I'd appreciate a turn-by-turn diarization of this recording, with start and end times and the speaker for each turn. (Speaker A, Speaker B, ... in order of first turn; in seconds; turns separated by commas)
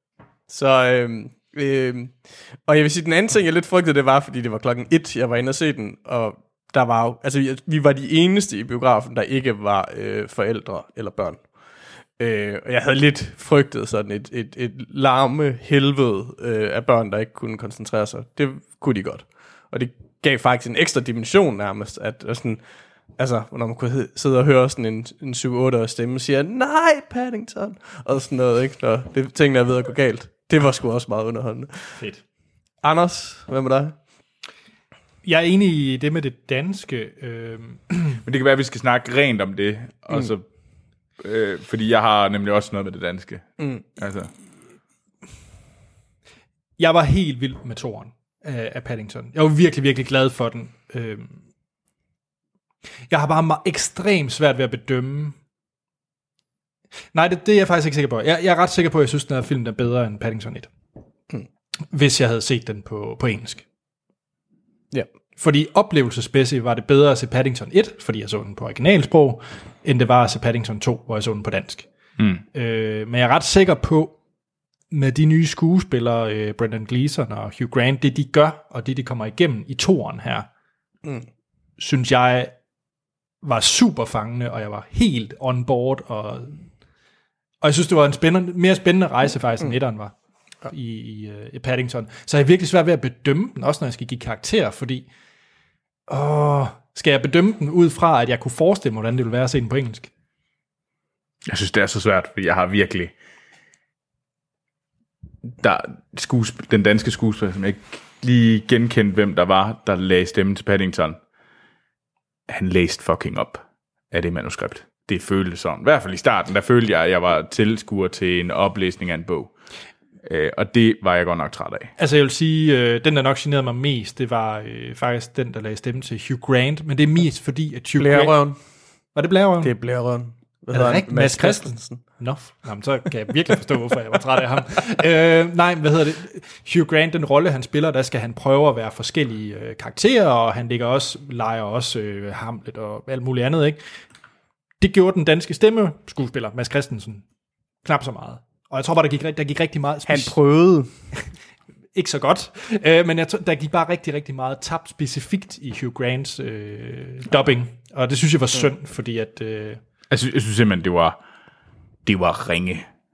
Speaker A: 0.5-11.4, Speaker A: 12.2-22.6, Speaker A: 23.2-32.0, Speaker A: 32.8-33.9, Speaker B: 35.2-38.2, Speaker C: 38.2-40.4, Speaker C: 41.2-44.3, Speaker A: 43.6-43.8, Speaker B: 46.8-51.4, Speaker B: 53.1-55.4, Speaker B: 57.1-60.7, Speaker B: 61.9-63.6, Speaker B: 65.4-71.9, Speaker B: 72.5-74.2, Speaker B: 74.9-80.5, Speaker B: 81.8-82.5, Speaker B: 83.4-86.6, Speaker B: 87.6-90.1, Speaker B: 90.7-95.1, Speaker B: 96.1-100.1, Speaker C: 101.5-103.1, Speaker C: 105.5-111.2, Speaker C: 112.5-119.5, Speaker C: 120.2-121.9, Speaker B: 122.0-128.4, Speaker A: 128.0-128.6, Speaker B: 129.2-129.7, Speaker A: 129.6-132.0, Speaker B: 130.7-143.8, Speaker B: 144.8-147.2, Speaker B: 147.8-150.3, Speaker A: 150.1-150.9, Speaker B: 151.9-159.8, Speaker C: 160.1-161.2, Speaker C: 162.1-162.9